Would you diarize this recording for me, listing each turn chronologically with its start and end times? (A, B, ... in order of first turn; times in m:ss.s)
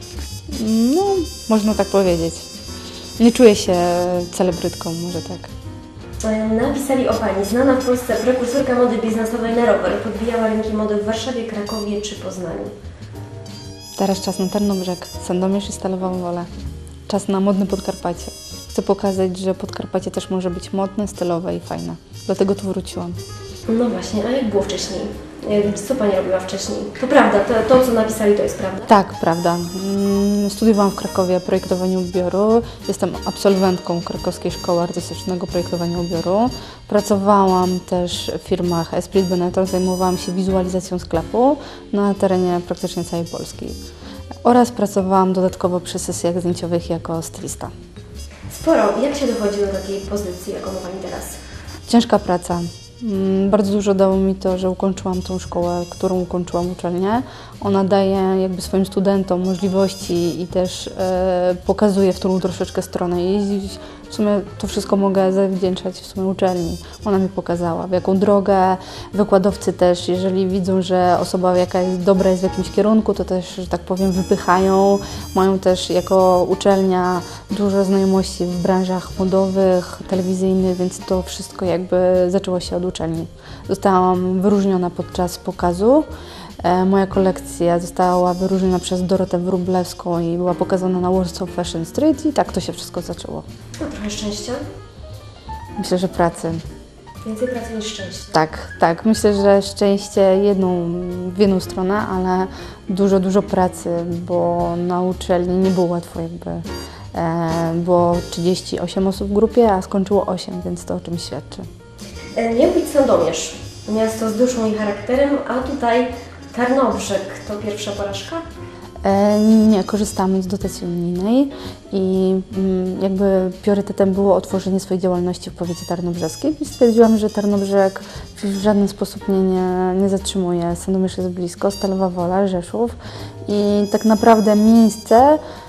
0:00.5-0:02.5 A
0:03.2-0:05.5 A
0:06.2-0:12.7 B
0:14.0-0:16.5 A
0:17.1-0:23.2 A
0:23.7-0:28.9 B
0:28.9-0:43.8 A
0:44.4-0:47.7 A
0:48.5-0:51.4 B
0:51.9-1:26.0 A
1:26.6-1:33.4 A
1:33.8-1:34.6 B
1:35.8-1:36.6 A
1:37.2-1:38.3 B
1:38.3-1:51.7 A
1:52.3-1:58.4 B
1:59.0-2:15.4 A